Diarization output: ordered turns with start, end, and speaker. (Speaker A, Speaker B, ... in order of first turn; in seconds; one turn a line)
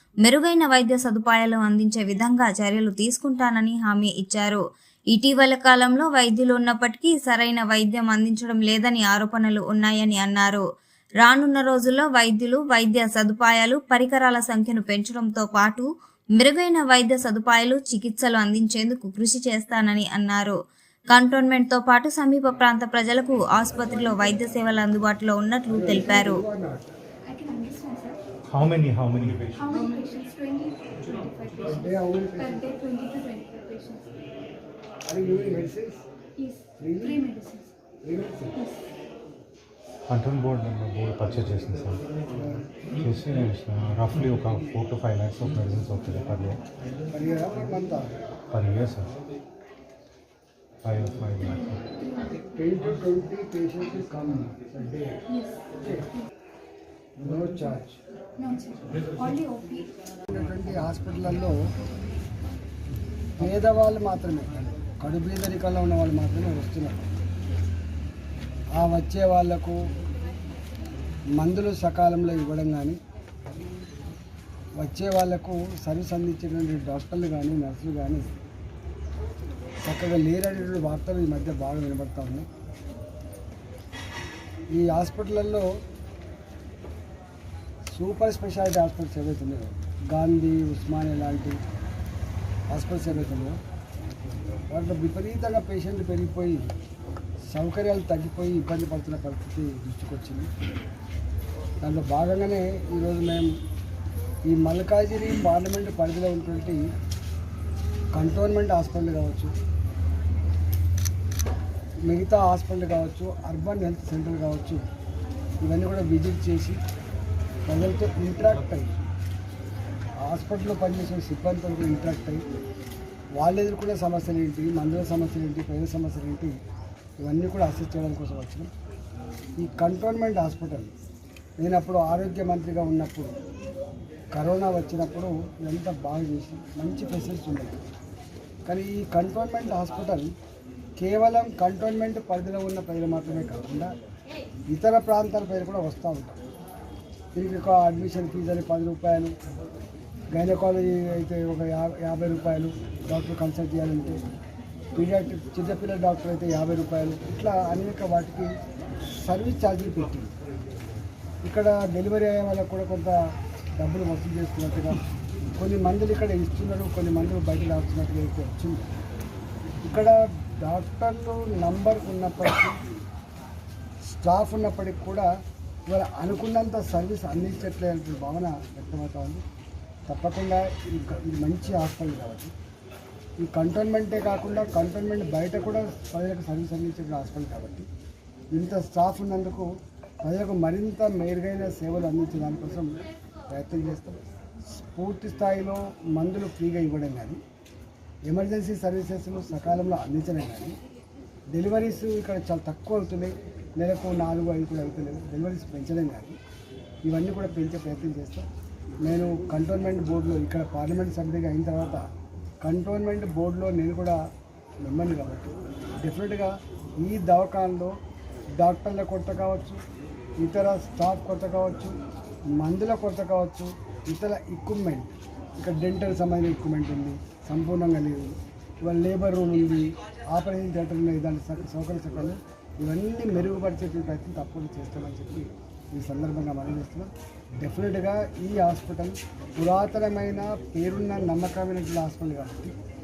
Speaker A: 0.2-10.6
Speaker A: 11.2-20.6
Speaker A: 21.1-26.4
Speaker B: 25.7-26.9
Speaker C: 27.2-28.2
Speaker D: 28.5-29.6
Speaker C: 29.6-34.1
Speaker B: 31.8-32.7
Speaker B: 35.0-36.0
Speaker C: 36.4-37.7
Speaker B: 36.8-37.2
Speaker B: 38.0-38.6
Speaker C: 38.5-38.8
Speaker D: 40.1-42.0
Speaker B: 42.3-42.6
Speaker D: 43.0-46.6
Speaker B: 47.1-48.1
Speaker D: 48.5-49.1
Speaker D: 50.8-51.8
Speaker C: 51.5-52.4
Speaker B: 52.5-55.2
Speaker C: 55.3-55.6
Speaker B: 55.7-56.1
Speaker B: 57.2-57.9
Speaker C: 58.4-59.9
Speaker B: 60.3-61.5
Speaker B: 63.4-67.0
Speaker B: 68.8-69.8
Speaker B: 71.4-73.0
Speaker B: 74.8-78.3
Speaker B: 79.8-82.5
Speaker B: 84.7-85.7
Speaker B: 87.9-91.5
Speaker B: 92.7-93.5
Speaker B: 94.7-96.7
Speaker B: 97.5-100.5
Speaker B: 101.8-103.5
Speaker B: 104.5-106.8
Speaker B: 108.1-109.5
Speaker B: 112.0-114.8
Speaker B: 115.6-116.8
Speaker B: 117.7-118.9
Speaker B: 120.2-122.4
Speaker B: 123.4-126.5
Speaker B: 127.2-128.7
Speaker B: 129.6-130.9
Speaker B: 131.6-133.3
Speaker B: 134.3-137.8
Speaker B: 138.7-140.3
Speaker B: 141.0-143.9
Speaker B: 144.7-146.4
Speaker B: 147.3-149.3
Speaker B: 150.3-154.2
Speaker B: 154.9-158.5
Speaker B: 159.2-160.3
Speaker B: 161.4-163.2
Speaker B: 163.8-165.0
Speaker B: 165.5-168.9
Speaker B: 169.8-172.8
Speaker B: 174.1-175.3
Speaker B: 175.9-179.4
Speaker B: 180.1-182.5
Speaker B: 183.4-187.8
Speaker B: 188.5-189.7
Speaker B: 190.2-192.9
Speaker B: 193.5-194.2
Speaker B: 194.9-197.4
Speaker B: 198.3-200.8
Speaker B: 201.5-206.4
Speaker B: 207.1-208.5
Speaker B: 209.0-212.0
Speaker B: 212.6-214.2
Speaker B: 214.8-216.5
Speaker B: 217.0-217.9
Speaker B: 218.6-219.8
Speaker B: 220.4-221.9
Speaker B: 222.6-237.1
Speaker B: 237.6-242.7